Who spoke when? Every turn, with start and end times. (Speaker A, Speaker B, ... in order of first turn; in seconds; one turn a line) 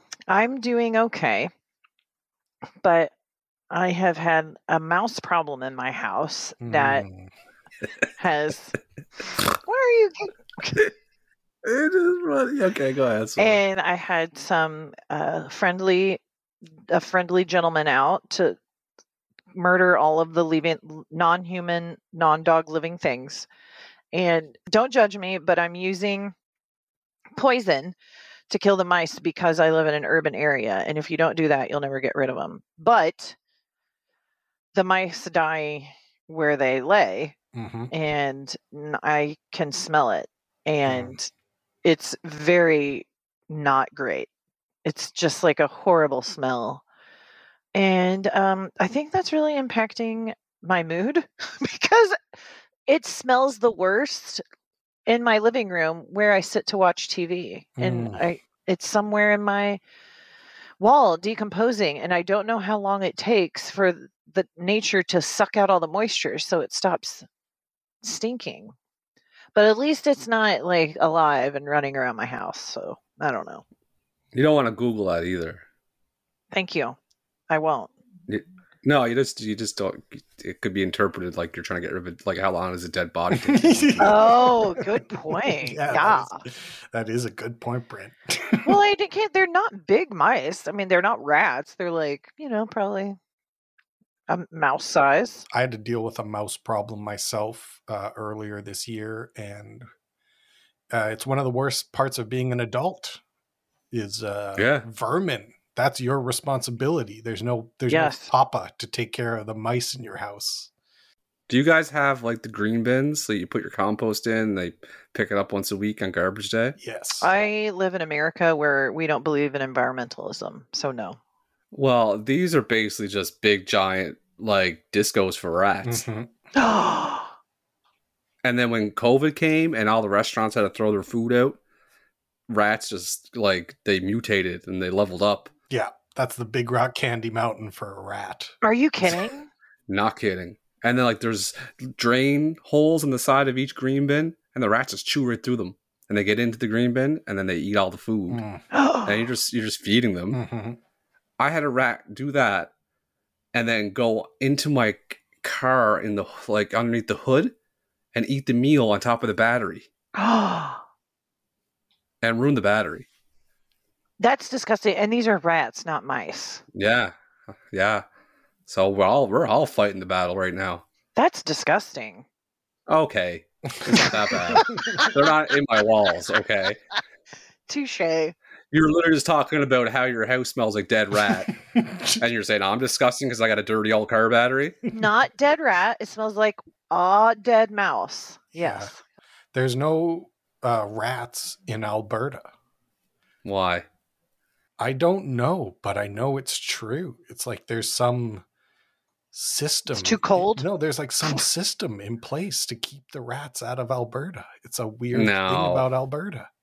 Speaker A: 0.3-1.5
Speaker A: 2.8-3.1
Speaker A: 3.7-7.1
Speaker B: 6.6-7.3
Speaker A: 8.2-8.8
Speaker A: 9.7-10.8
Speaker C: 11.6-13.6
Speaker A: 13.4-16.2
Speaker A: 16.9-18.6
Speaker A: 19.5-23.5
Speaker A: 24.1-26.3
Speaker A: 27.4-27.9
Speaker A: 28.5-33.4
Speaker A: 34.7-37.4
Speaker B: 37.5-37.9
Speaker A: 37.9-41.3
Speaker B: 40.9-41.2
Speaker A: 41.8-44.3
Speaker A: 44.9-46.8
Speaker A: 47.7-52.2
Speaker A: 52.9-54.4
Speaker A: 55.1-59.8
Speaker B: 57.8-58.2
Speaker A: 60.8-67.2
Speaker A: 68.0-68.7
Speaker A: 69.5-73.6
Speaker C: 74.3-75.6
Speaker A: 76.5-77.0
Speaker A: 77.5-77.9
Speaker C: 78.3-84.3
Speaker B: 83.3-84.8
Speaker A: 84.0-86.4
Speaker B: 85.4-88.7
Speaker A: 88.6-93.2
Speaker A: 94.3-95.5
Speaker B: 95.5-99.9
Speaker B: 100.9-103.2
Speaker B: 103.9-110.7
Speaker C: 104.6-104.8
Speaker A: 107.9-108.3
Speaker C: 111.5-116.8
Speaker B: 116.8-117.3
Speaker A: 117.2-121.2
Speaker C: 121.7-126.0
Speaker B: 125.8-126.3
Speaker A: 126.5-127.3
Speaker C: 128.4-131.6
Speaker C: 132.5-135.5
Speaker B: 135.7-138.5
Speaker A: 138.6-139.5
Speaker C: 139.9-148.4
Speaker B: 148.3-148.6
Speaker A: 148.7-149.3
Speaker C: 149.1-150.4
Speaker B: 150.3-150.8
Speaker C: 151.4-152.7
Speaker C: 153.5-157.5
Speaker C: 158.1-159.9
Speaker A: 160.2-160.8
Speaker C: 162.2-163.1
Speaker A: 164.2-166.6
Speaker C: 166.8-167.1
Speaker C: 167.7-168.1
Speaker C: 168.7-170.8
Speaker A: 171.2-172.2
Speaker C: 172.9-176.8
Speaker B: 173.9-175.0
Speaker A: 174.6-175.1
Speaker A: 177.7-178.3
Speaker C: 178.7-181.6
Speaker B: 181.3-182.2
Speaker C: 182.2-184.8
Speaker A: 184.9-189.0
Speaker B: 188.6-188.9
Speaker B: 189.5-192.5
Speaker C: 193.4-193.9
Speaker B: 194.8-198.4
Speaker B: 199.3-206.5
Speaker A: 199.9-200.7
Speaker C: 205.1-205.9